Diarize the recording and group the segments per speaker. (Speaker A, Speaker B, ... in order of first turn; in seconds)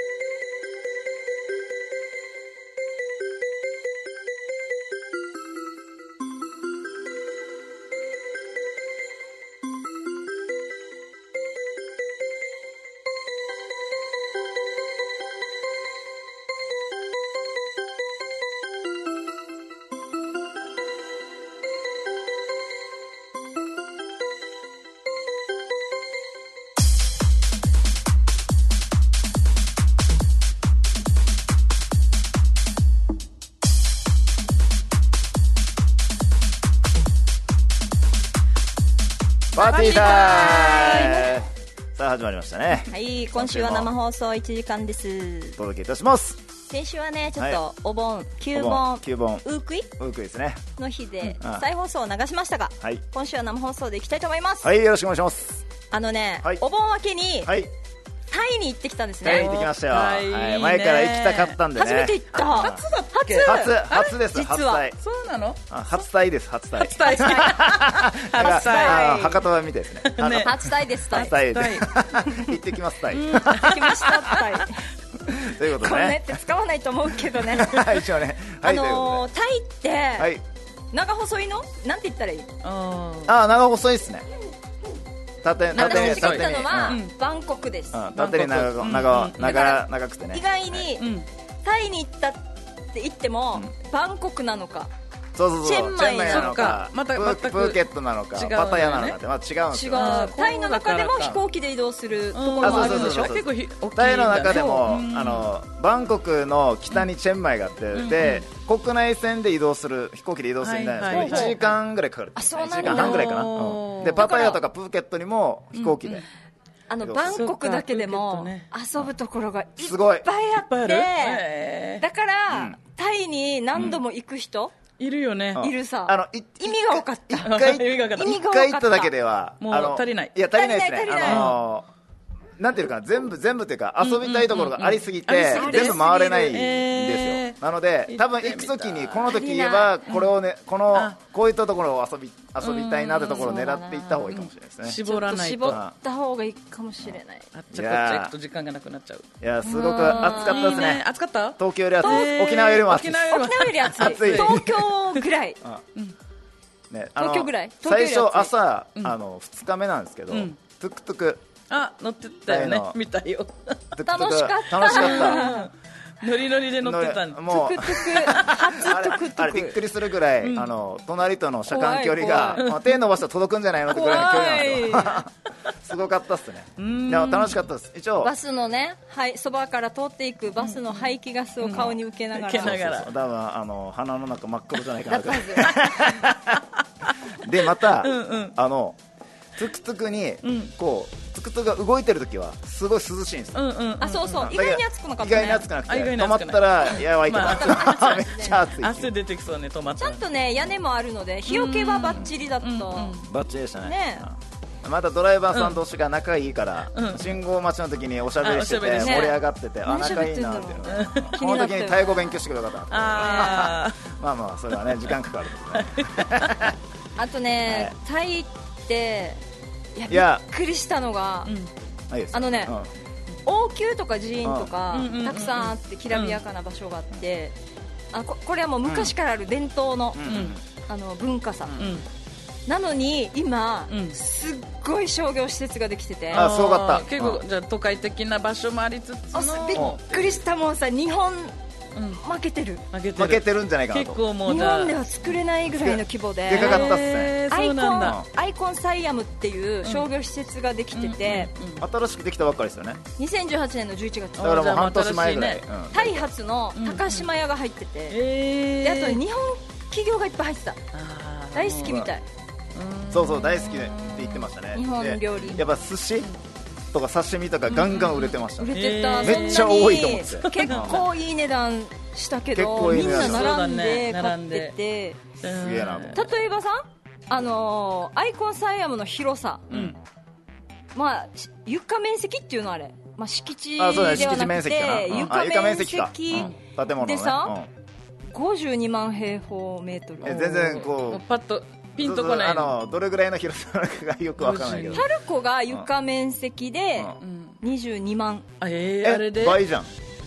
Speaker A: 39.5-41.3, 42.9-45.6, 46.7-49.9, 50.8-54.7, 55.9-57.5, 58.3-59.6, 61.7-64.8, 66.8-67.8, 68.3-69.4, 70.3-71.4, 73.5-74.8, 75.7-78.0, 78.6-80.3, 80.9-82.5, 85.7-88.0, 89.4-91.1, 91.6-94.9, 95.6-96.7, 99.7-103.3, 111.1-111.7, 112.3-113.5, 114.2-114.6, 116.9-121.4, 122.0-124.7, 125.5-127.6, 128.1-129.1, 130.5-131.5, 135.5-136.6, 139.2-140.0, 143.3-144.2, 145.0-147.5, 149.6-150.8, 152.0-152.6, 153.3-155.6, 157.2-158.5, 164.0-165.7, 167.5-169.8, 171.7-172.7, 173.9-175.2, 178.2-182.8, 185.1-185.7, 194.0-195.7, 197.3-198.6, 200.0-203.2, 203.8-204.3, 209.0-212.2, 213.2-213.7, 217.2-219.4, 219.9-221.5, 222.3-222.7, 223.4-227.6, 228.1-231.8, 232.7-236.5, 239.3-241.6, 242.2-242.8, 244.4-251.5, 253.2-254.6, 255.9-258.2, 258.8-260.8, 261.5-262.2, 264.7-265.7, 268.6-275.2, 276.1-279.7, 280.9-287.6, 288.3-290.5, 294.9-298.5
Speaker B: 39.5-43.9, 45.6-46.4, 48.5-50.6, 54.6-55.6, 57.4-57.7, 59.2-62.8, 63.4-65.0, 65.7-74.0, 75.2-76.2, 77.5-79.2, 80.2-80.4, 83.2-84.2, 85.4-87.0, 87.9-90.8, 95.3-100.3, 102.6-116.3, 117.0-117.4, 119.8-120.3, 125.5-131.9, 132.6-145.0, 145.6-145.9, 147.7-148.3, 149.4-154.8, 156.9-161.4, 162.5-163.0, 164.0-165.6, 166.8-178.3, 181.7-182.0, 182.6-186.6, 187.4-189.0, 189.6-193.6, 194.3-199.1, 203.2-216.7, 217.7-217.9, 220.1-220.4, 222.1-222.9, 224.4-224.7, 228.8-229.1, 230.2-230.6, 236.3-237.4, 243.2-244.2, 245.7-247.4, 248.0-248.2, 251.8-253.0, 254.4-256.3, 263.1-266.3, 266.9-271.0, 272.5-273.5, 275.4-276.2, 279.7-280.0, 283.8-287.7, 290.2-291.2, 291.9-295.0, 299.0-299.9
Speaker C: 59.2-61.6, 62.3-64.1, 65.0-65.8, 66.8-69.4, 70.0-72.4, 73.1-74.4, 82.6-83.3, 85.7-87.1, 88.1-89.7, 91.0-91.3, 96.2-97.8, 98.3-99.2, 99.9-101.4, 102.3-105.5, 107.9-108.4, 110.6-111.7, 112.8-114.3, 115.7-116.2, 117.3-118.7, 120.5-122.0, 125.0-125.7, 127.4-128.4, 129.6-130.3, 131.1-131.6, 134.0-137.6, 138.1-139.3, 140.1-140.3, 142.6-145.8, 147.5-149.3, 149.8-155.2, 160.3-160.6, 161.7-164.0, 164.7-167.7, 170.4-170.7, 172.6-172.8, 176.8-177.6, 180.6-181.1, 181.6-183.1, 187.8-188.6, 190.4-190.7, 193.5-194.6, 195.7-200.2, 201.5-203.3, 205.5-205.8, 206.9-207.4, 208.4-209.4, 210.8-211.6, 212.9-214.0, 214.7-215.1, 215.7-216.7, 221.4-221.7, 224.9-226.4, 230.2-230.6, 231.8-232.0, 233.9-234.2, 236.3-240.3, 241.9-242.2, 242.9-245.0, 246.5-248.2, 250.9-251.8, 254.4-255.6, 256.7-257.3, 258.1-259.2, 260.9-262.1, 262.7-264.5, 267.8-269.8, 270.6-271.0, 272.8-274.8, 275.4-276.3, 279.7-280.0, 285.1-285.3, 290.2-292.7, 294.4-295.1, 297.2-297.6, 298.6-299.6